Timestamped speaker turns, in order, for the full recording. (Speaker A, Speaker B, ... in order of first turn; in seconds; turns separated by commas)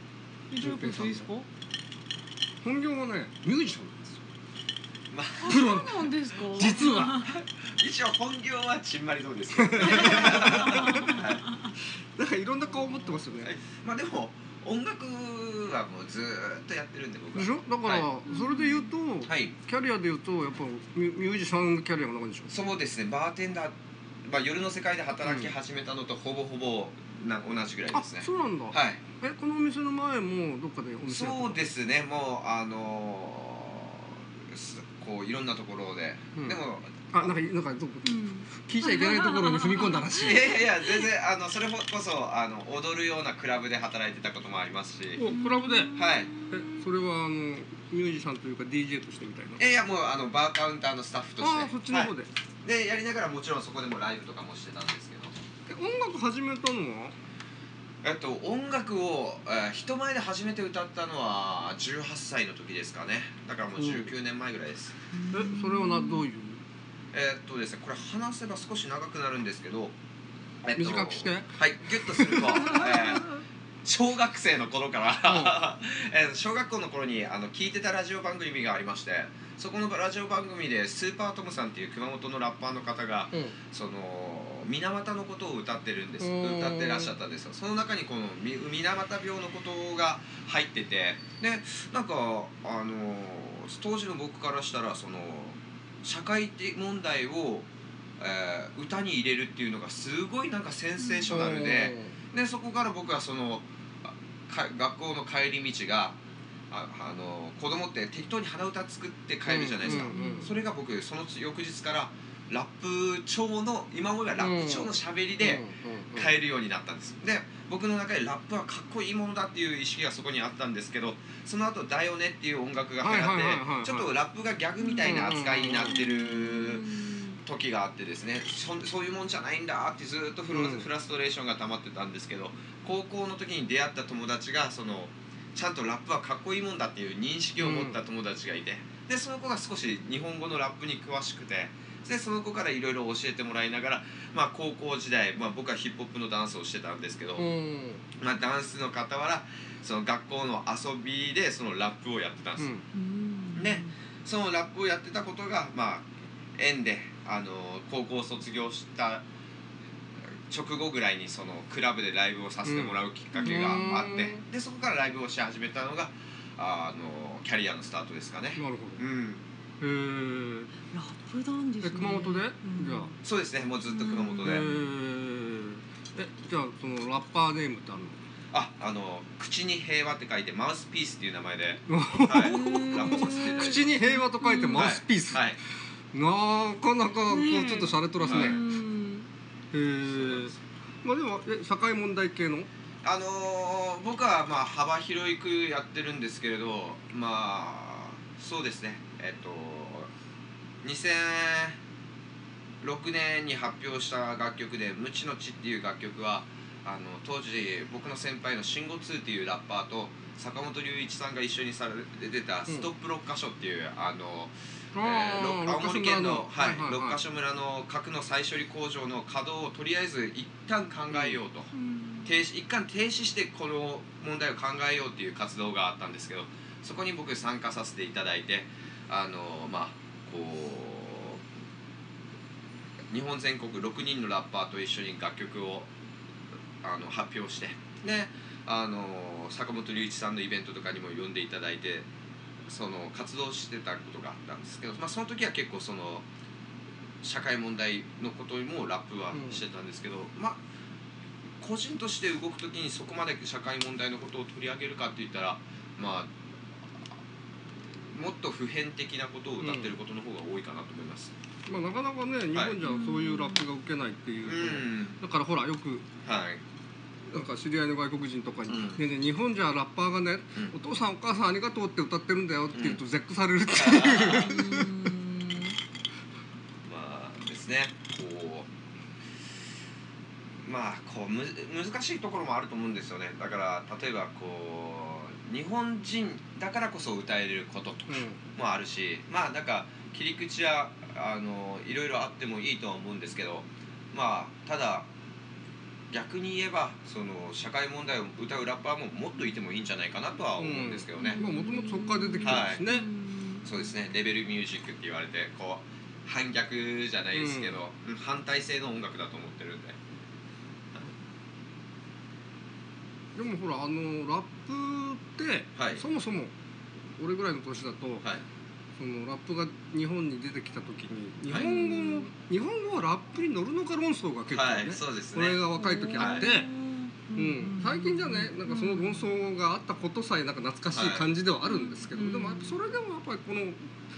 Speaker A: 0.5-1.5, Speaker B: 0.6-1.3, Speaker B: 2.6-4.2, Speaker C: 5.1-5.7, Speaker A: 5.4-7.2, Speaker B: 5.5-7.2, Speaker C: 6.6-11.4, Speaker B: 9.6-11.2, Speaker A: 10.0-11.2, Speaker B: 12.2-13.5, Speaker C: 13.4-18.1, Speaker B: 17.3-22.5, Speaker A: 18.3-18.9, Speaker C: 19.2-19.6, Speaker C: 22.5-29.0, Speaker B: 25.2-25.5, Speaker B: 27.9-31.6, Speaker C: 31.1-37.4, Speaker B: 37.1-40.6, Speaker A: 38.0-40.1, Speaker C: 40.2-45.2, Speaker B: 45.2-49.6, Speaker A: 45.3-46.9, Speaker C: 45.9-46.3, Speaker C: 49.6-52.1, Speaker B: 51.4-52.3, Speaker C: 52.6-55.4, Speaker B: 55.7-57.1, Speaker C: 58.0-65.0, Speaker B: 63.8-64.1, Speaker A: 65.1-66.3, Speaker B: 65.3-66.6, Speaker C: 67.1-70.0, Speaker C: 70.6-106.2, Speaker B: 70.8-73.0, Speaker B: 75.2-75.6, Speaker B: 83.3-83.6, Speaker B: 86.2-87.1, Speaker A: 101.0-101.3, Speaker B: 101.3-102.2, Speaker C: 106.7-115.6, Speaker B: 109.5-110.5, Speaker A: 109.9-110.5, Speaker B: 114.4-116.3, Speaker C: 116.2-147.5, Speaker B: 123.0-124.1, Speaker A: 124.8-127.2, Speaker B: 125.0-126.0, Speaker B: 130.5-130.9, Speaker B: 137.6-138.0, Speaker B: 147.4-148.0, Speaker C: 148.2-152.7, Speaker B: 152.6-152.8, Speaker A: 152.9-153.9, Speaker C: 153.6-159.2, Speaker C: 160.5-169.4, Speaker B: 162.7-164.4, Speaker B: 168.6-169.1, Speaker B: 169.8-170.7, Speaker A: 170.9-173.2, Speaker B: 171.8-173.1, Speaker C: 173.2-174.7, Speaker A: 173.8-174.8, Speaker B: 174.4-178.2, Speaker C: 178.5-183.9, Speaker B: 181.9-185.5, Speaker A: 182.4-184.8, Speaker C: 184.7-185.6, Speaker B: 186.1-188.6, Speaker A: 187.3-189.3, Speaker C: 188.2-188.6, Speaker B: 189.7-192.7, Speaker C: 190.0-190.6, Speaker C: 193.0-200.1, Speaker C: 200.8-201.8, Speaker C: 202.8-221.7, Speaker B: 214.9-217.2, Speaker B: 221.1-221.4, Speaker A: 221.7-222.4, Speaker C: 222.2-231.4, Speaker C: 233.1-235.9, Speaker C: 236.8-242.1, Speaker C: 242.7-246.3, Speaker C: 247.2-250.6, Speaker B: 249.3-249.6, Speaker C: 251.6-256.3, Speaker C: 257.9-261.3, Speaker B: 259.6-259.9, Speaker B: 261.7-266.1, Speaker C: 262.5-262.8, Speaker A: 262.8-263.7, Speaker C: 264.4-265.2, Speaker C: 266.2-266.6, Speaker B: 267.3-274.9, Speaker C: 268.7-269.0, Speaker C: 272.7-273.0, Speaker C: 273.7-274.5, Speaker A: 274.5-275.8, Speaker C: 276.9-278.7, Speaker C: 280.6-295.1, Speaker B: 288.1-288.4, Speaker C: 296.1-301.4, Speaker B: 300.6-303.1, Speaker A: 301.2-303.7, Speaker C: 302.4-302.8, Speaker C: 303.6-310.0, Speaker B: 307.3-307.8, Speaker B: 313.4-316.5, Speaker C: 315.8-316.0, Speaker B: 317.2-318.3, Speaker B: 319.0-326.7, Speaker A: 321.6-322.3, Speaker C: 324.5-325.6, Speaker A: 325.7-329.4, Speaker C: 326.2-326.5, Speaker B: 327.4-333.9, Speaker C: 330.9-331.3, Speaker A: 331.6-332.8